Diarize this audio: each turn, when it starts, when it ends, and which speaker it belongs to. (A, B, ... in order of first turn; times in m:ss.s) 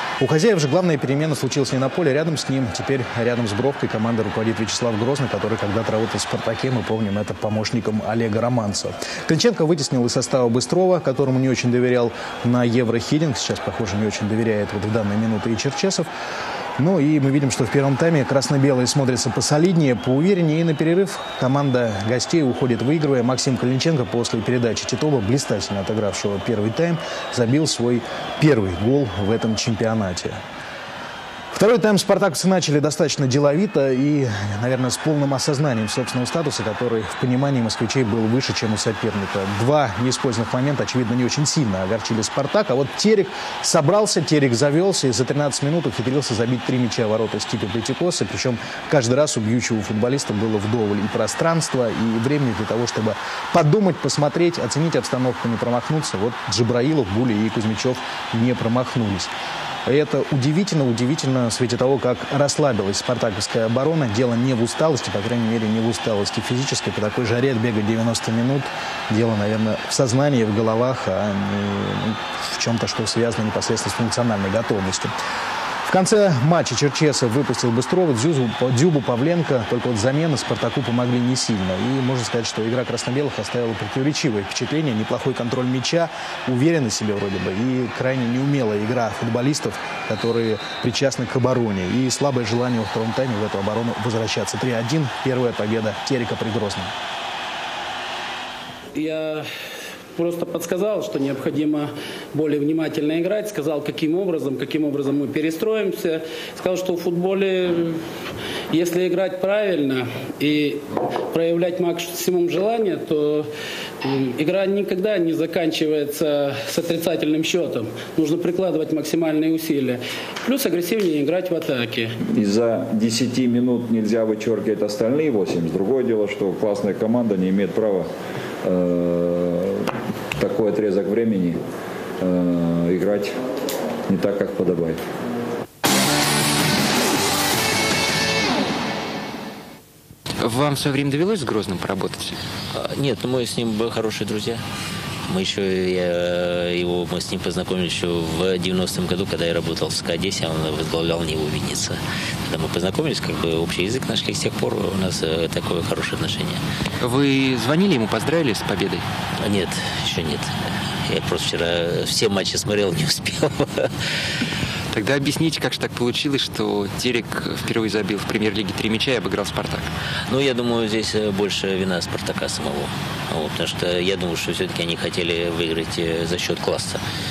0:00.2-0:16.1 A
0:16.8-0:30.4 A
0:31.5-0:59.3 A
0:59.8-1:15.1 A
1:15.9-1:36.9 A
1:38.9-1:39.4 B
1:40.2-1:48.0 B
1:48.7-1:53.5 B
1:54.0-2:02.2 B
2:02.3-2:08.1 C
2:08.6-2:11.6 C
2:12.2-2:13.3 C
2:14.1-2:15.0 C
2:20.4-2:22.4 D
2:22.7-2:24.6 E
2:25.3-2:36.6 E
2:37.0-2:39.0 D
2:39.4-2:40.5 E
2:41.1-2:43.9 E
2:44.9-2:49.9 D
2:50.3-2:57.0 E